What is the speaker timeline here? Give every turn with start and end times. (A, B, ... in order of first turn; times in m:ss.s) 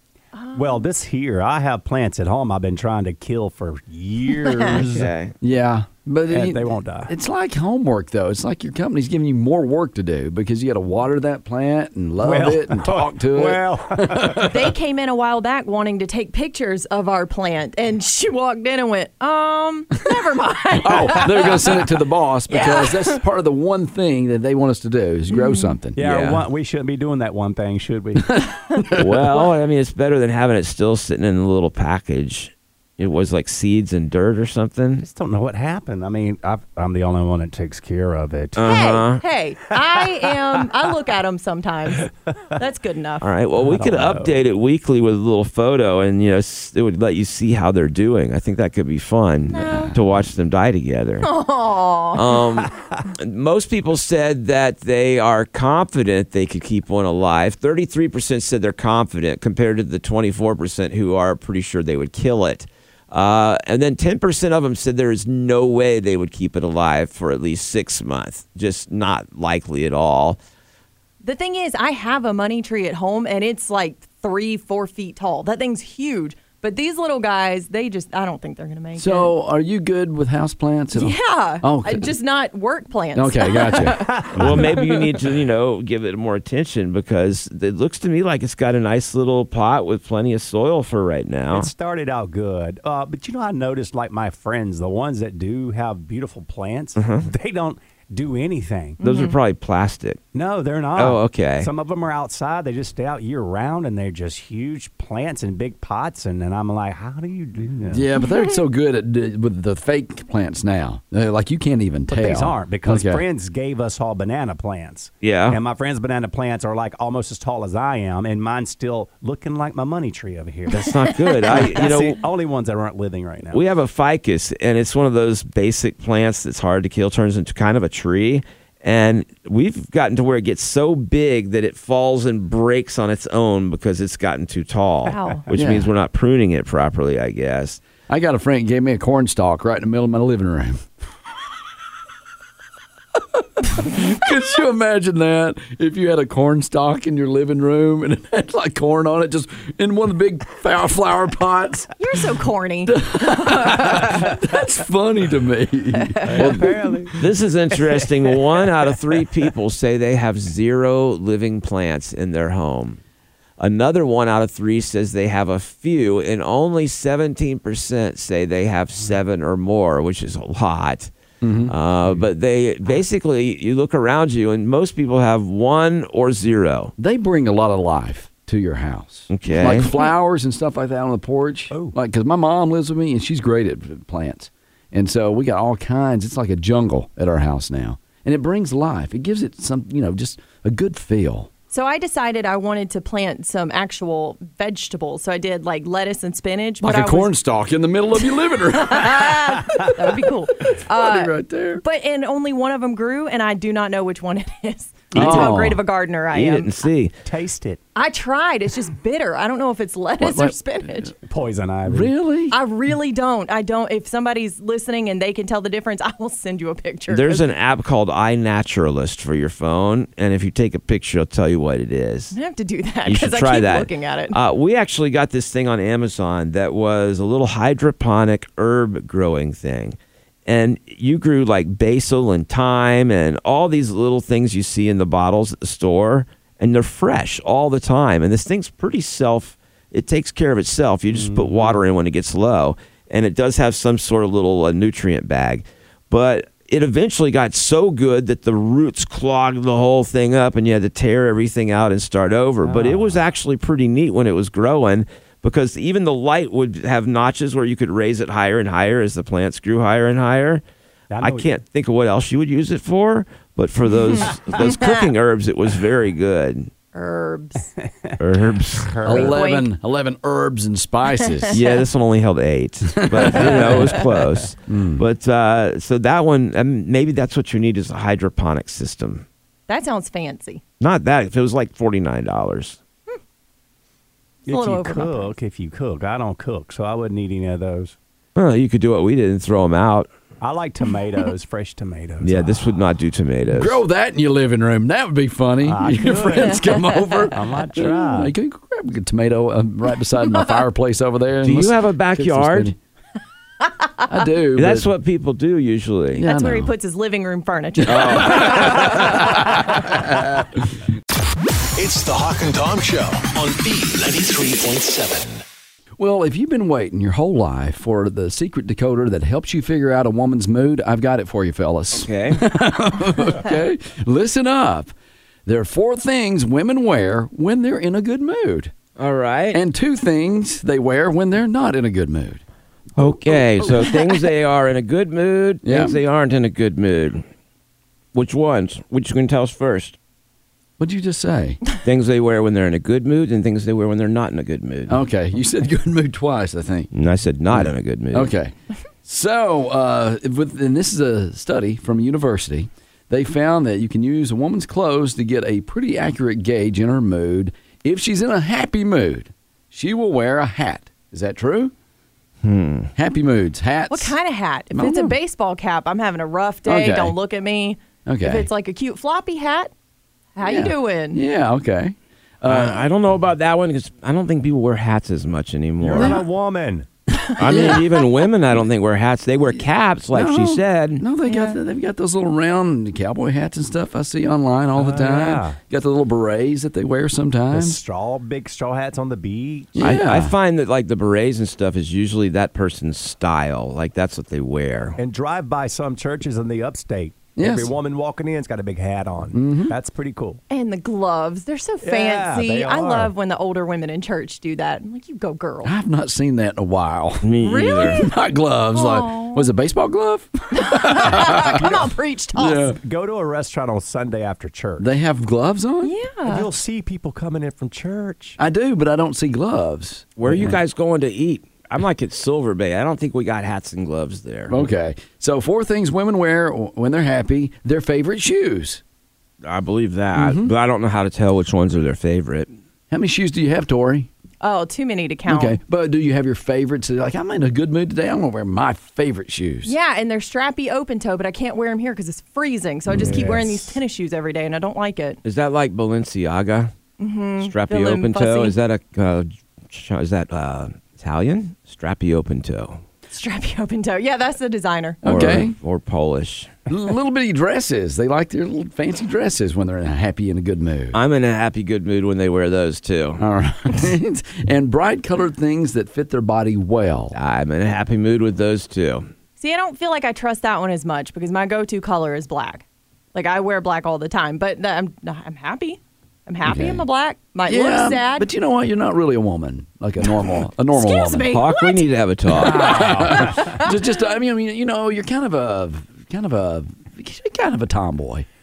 0:00.4-0:00.8 A
0:00.6-0:05.1 B
0:04.7-0:05.3 C
0:05.4-0:14.7 D
0:06.3-0:07.1 B
0:12.2-0:14.5 B
0:14.4-0:21.8 A
0:20.8-0:26.0 D
0:22.5-0:23.2 A
0:25.3-0:25.8 A
0:26.0-0:28.4 B
0:26.0-0:26.4 C
0:28.2-0:29.1 D
0:29.0-0:35.1 C
0:35.0-0:38.8 B
0:38.6-0:39.2 C
0:38.6-0:43.3 A
0:43.2-0:51.3 C
0:43.6-0:44.4 B
0:49.5-0:50.0 A
0:51.2-0:52.2 A
0:52.1-1:10.4 C
1:11.2-1:19.3 A
1:19.0-1:22.1 D
1:20.9-1:25.1 A
1:23.2-1:24.1 D
1:24.1-1:24.8 B
1:24.4-1:31.7 C
1:31.5-1:39.0 B
1:37.0-1:37.3 C
1:39.0-1:39.4 A
1:39.0-1:40.2 C
1:40.3-1:48.1 B
1:41.0-1:41.7 C
1:47.9-1:53.2 D
1:52.1-2:03.6 B
1:55.2-1:55.6 C
2:00.8-2:02.2 C
2:03.5-2:17.8 C
2:15.1-2:15.4 A
2:15.5-2:15.9 D
2:18.1-2:20.8 D
2:23.6-2:31.9 D
2:32.0-2:34.1 A
2:32.9-2:36.8 D
2:36.0-2:36.7 A
2:36.2-2:37.2 B
2:37.2-2:43.0 C
2:43.6-2:51.1 C
2:51.4-2:51.7 D
2:51.7-2:56.9 C
2:57.0-3:11.5 D
2:59.3-2:59.9 C
2:59.7-3:00.1 A
3:11.7-3:17.4 A
3:16.8-3:20.1 D
3:18.7-3:26.7 A
3:20.6-3:21.8 D
3:25.1-3:25.8 C
3:25.1-3:25.8 D
3:26.3-3:27.1 C
3:27.3-3:27.8 B
3:28.0-3:31.2 A
3:30.2-3:31.1 D
3:31.3-3:32.1 B
3:31.9-3:32.6 D
3:32.5-3:37.5 A
3:37.1-3:42.3 C
3:42.3-3:44.4 A
3:43.1-4:20.6 C
4:01.1-4:01.8 B
4:12.6-4:13.2 B
4:21.1-4:21.5 B
4:21.2-4:26.7 C
4:24.1-4:25.1 A
4:26.9-4:27.7 A
4:28.2-4:28.9 C
4:28.8-4:29.4 B
4:29.0-4:31.6 D
4:29.2-4:29.7 A
4:31.5-4:39.2 C
4:33.0-4:34.0 D
4:34.7-4:35.0 D
4:39.7-4:40.6 A
4:40.8-4:42.8 C
4:44.5-4:45.3 A
4:44.5-4:48.0 B
4:48.4-4:50.1 C
4:50.4-4:52.8 B
4:52.2-4:53.8 C
4:53.5-5:02.8 D
4:55.6-4:58.3 B
4:56.8-4:57.3 A
5:01.4-5:02.7 C
5:04.1-5:04.9 D
5:04.6-5:06.2 C
5:06.2-5:06.7 D
5:06.2-5:09.7 A
5:07.8-5:10.8 D
5:07.9-5:09.1 C
5:11.8-5:15.4 E
5:16.0-5:24.9 D
5:21.9-5:22.4 C
5:25.5-5:28.7 D
5:29.0-5:29.6 C
5:29.5-5:32.4 D
5:33.0-5:37.2 C
5:35.6-5:36.0 D
5:38.1-5:40.0 C
5:40.8-5:41.6 D
5:41.8-5:45.0 C
5:44.9-5:46.9 D
5:46.9-5:48.3 C
5:47.5-6:01.7 D
6:02.4-6:02.9 C
6:03.0-6:04.2 D
6:03.9-6:09.7 A
6:04.7-6:05.2 D
6:06.7-6:07.2 D
6:08.1-6:08.5 D
6:10.4-6:11.2 A
6:10.4-6:12.9 D
6:12.5-6:16.2 C
6:15.8-6:16.9 B
6:15.9-6:16.2 D
6:17.4-6:21.0 C
6:17.4-6:18.0 D
6:20.1-6:27.8 D
6:21.3-6:21.6 A
6:24.8-6:25.6 B
6:27.5-6:29.8 B
6:29.8-6:30.4 D
6:29.8-6:35.0 C
6:35.0-6:40.4 B
6:37.4-6:37.7 D
6:39.3-6:39.8 D
6:40.5-6:45.7 A
6:41.8-6:43.1 B
6:45.6-6:51.8 D
6:47.2-6:48.0 C
6:47.4-6:48.1 A
6:48.7-6:49.5 A
6:50.5-6:52.8 A
6:52.4-6:52.8 D
6:52.8-6:54.9 B
6:54.8-6:55.9 D
6:55.8-6:56.5 A
6:56.2-6:58.4 B
6:58.4-7:00.6 D
7:00.2-7:04.6 C
7:04.5-7:08.8 D
7:09.4-7:12.5 C
7:10.2-7:10.5 D
7:12.9-7:14.1 D
7:14.4-7:15.6 A
7:15.3-7:19.7 D
7:19.6-7:25.2 A
7:22.9-7:23.4 D
7:23.0-7:23.5 B
7:25.2-7:26.7 C
7:27.0-7:28.6 A
7:27.4-7:32.8 C
7:33.1-7:35.0 A
7:35.0-7:35.6 D
7:35.0-7:36.6 C
7:36.7-7:41.0 D
7:40.9-7:43.2 C
7:43.2-7:47.2 D
7:47.1-7:49.1 C
7:49.4-7:58.3 A
7:56.4-7:56.8 D
7:57.5-8:01.4 D
8:00.7-8:01.8 A
8:01.3-8:03.1 C
8:02.3-8:08.3 D
8:02.3-8:03.7 B
8:03.4-8:03.7 A